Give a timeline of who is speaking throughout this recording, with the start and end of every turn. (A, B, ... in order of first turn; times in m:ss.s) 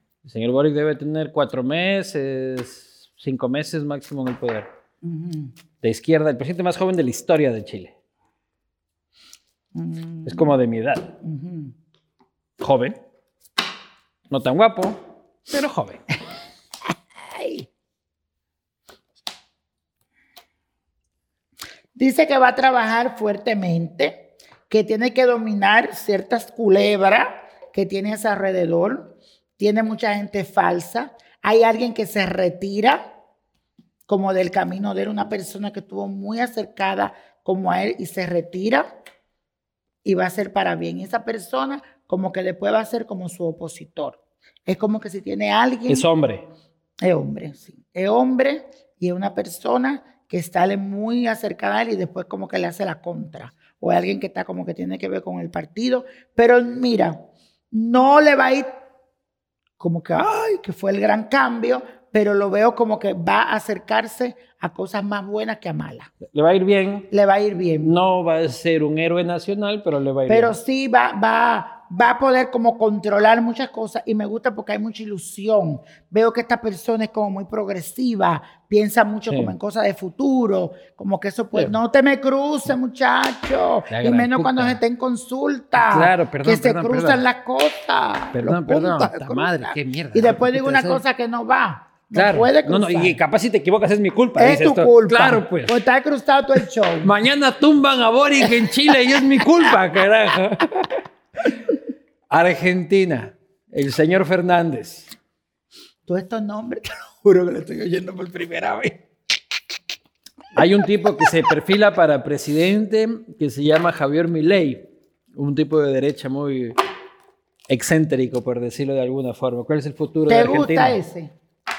0:00.2-0:04.7 A
0:05.0-0:05.6 B
0:05.8-0:07.9 A
0:09.7-0:10.6 B
0:10.2-0:11.1 A
0:11.2-0:11.7 B
0:12.6-0:13.0 A
0:14.3-0:16.0 A
0:17.2-0:17.7 B
0:21.9-0:33.1 B
0:34.1-0:38.9 B
0:40.0-0:46.1 B
0:45.9-0:46.4 A
0:47.0-0:58.7 B
0:59.8-1:06.1 B
1:06.2-1:07.1 A
1:07.1-1:08.0 B
1:07.8-1:10.6 A
1:10.3-1:33.2 B
1:19.3-1:19.5 A
1:23.9-1:24.8 A
1:25.7-1:27.2 A
1:28.3-1:31.0 A
1:32.1-1:35.7 A
1:34.4-1:37.1 B
1:37.0-1:41.0 A
1:38.4-1:39.2 B
1:42.3-1:45.1 A
1:46.0-1:49.0 B
1:50.5-1:56.8 A
1:57.7-2:01.0 A
2:00.3-2:01.3 B